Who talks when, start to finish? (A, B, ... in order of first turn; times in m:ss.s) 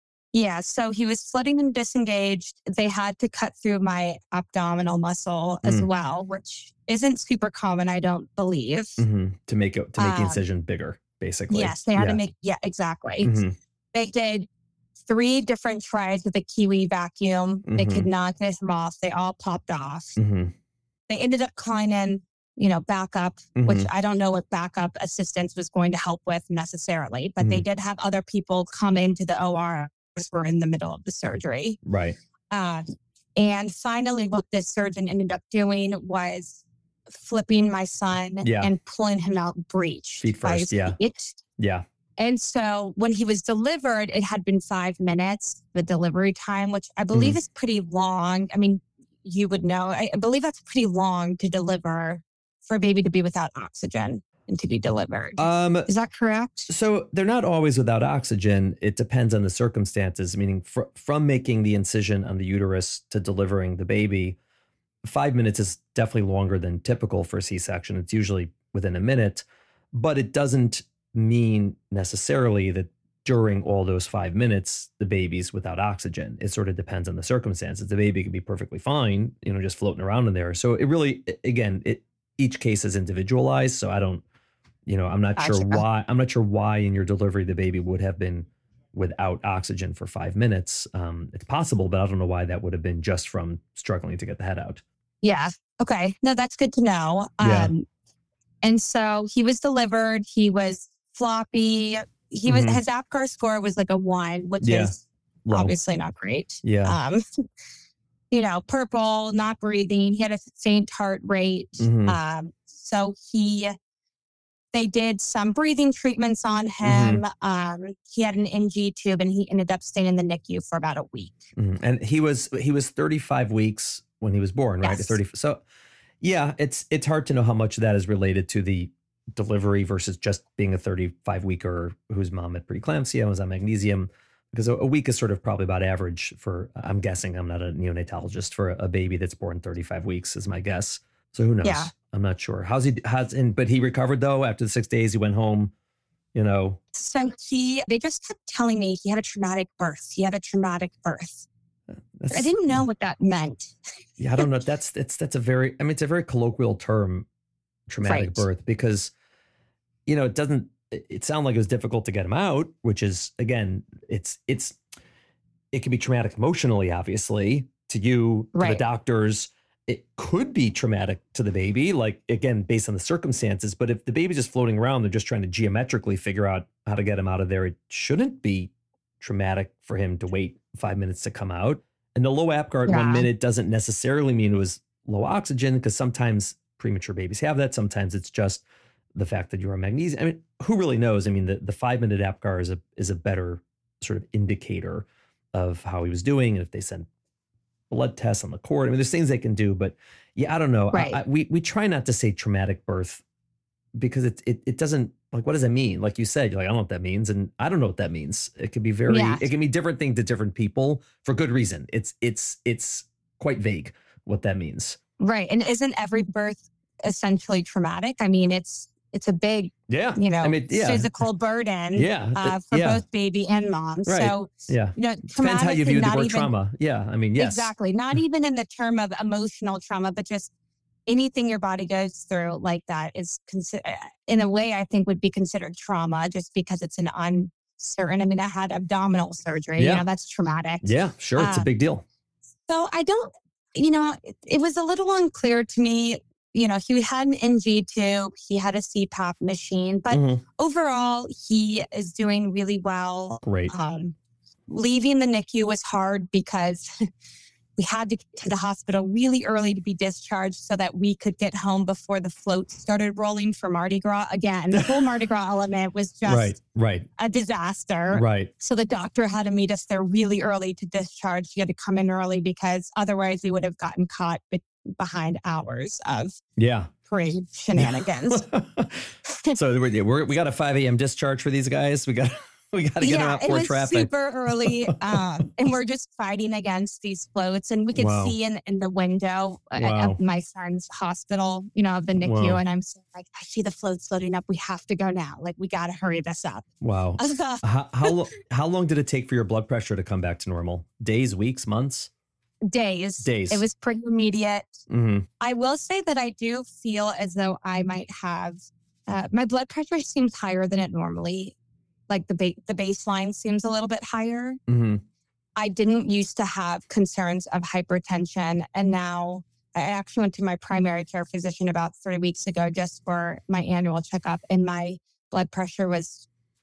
0:00.3-0:09.0 A
0:09.0-0:12.2 B
0:10.0-0:10.4 A
0:11.5-0:13.4 A
0:13.2-0:13.6 B
0:13.9-0:14.5 A
0:15.0-0:20.2 A
0:17.7-0:18.1 B
0:20.2-0:20.5 B
0:21.1-0:31.8 A
0:23.6-0:23.9 B
0:31.8-0:32.2 B
0:32.5-0:32.8 A
0:33.4-0:41.4 A
0:38.4-0:38.7 B
0:40.2-0:41.0 B
0:41.6-0:41.8 B
0:42.2-0:56.7 A
0:47.1-0:47.4 B
0:55.4-0:55.9 B
0:56.7-1:04.4 B
1:05.0-1:24.2 B
1:24.9-1:34.8 B
1:25.4-1:25.8 A
1:35.2-1:37.9 A
1:37.4-1:37.7 B
1:38.6-1:45.0 A
1:42.5-1:42.8 B
1:44.6-1:44.9 B
1:45.5-1:45.7 B
1:45.5-1:47.2 A
1:46.6-1:47.0 B
1:48.3-1:53.7 A
1:51.8-1:52.2 B
1:54.7-2:01.5 A
1:56.8-1:57.2 B
2:01.6-2:05.6 B
2:04.8-2:05.2 A
2:06.2-2:25.7 B
2:21.6-2:21.9 A
2:26.3-2:26.8 B
2:26.9-2:31.5 A
2:32.2-2:32.5 B
2:32.3-2:33.8 A
2:34.2-2:37.3 B
2:37.9-2:39.1 B
2:38.0-2:38.4 A
2:40.1-2:44.8 B
2:45.7-3:08.6 B
2:48.6-2:48.8 A
3:02.9-3:03.3 A
3:09.2-3:17.1 B
3:17.9-3:23.2 B
3:20.9-3:21.2 A
3:24.0-3:35.0 B
3:29.1-3:29.4 A
3:35.2-3:46.5 A
3:39.9-3:41.1 B
3:42.0-3:43.0 B
3:44.1-3:47.7 B
3:47.4-3:50.5 A
3:51.1-4:01.7 A
3:59.8-4:00.0 B
4:00.8-4:02.0 B
4:02.7-4:14.2 A
4:10.1-4:10.4 B
4:13.4-4:13.7 B
4:14.7-4:17.1 A
4:17.8-4:26.6 A
4:24.7-4:25.1 B
4:26.3-4:27.1 B
4:27.2-4:36.4 A
4:28.1-4:28.5 B
4:36.6-4:36.9 B
4:37.1-4:38.4 A
4:37.8-4:44.1 B
4:39.3-4:39.6 A
4:43.0-4:56.7 A
4:44.6-4:45.2 B
4:48.0-4:48.4 B
4:49.8-4:50.2 B
4:52.2-4:52.6 B
4:56.8-5:02.1 B
4:57.2-4:58.2 A
5:02.6-5:04.8 A
5:03.2-5:03.6 B
5:04.9-5:05.3 B
5:05.4-5:11.6 A
5:12.1-5:14.6 A
5:14.7-5:15.0 B
5:15.6-5:26.3 A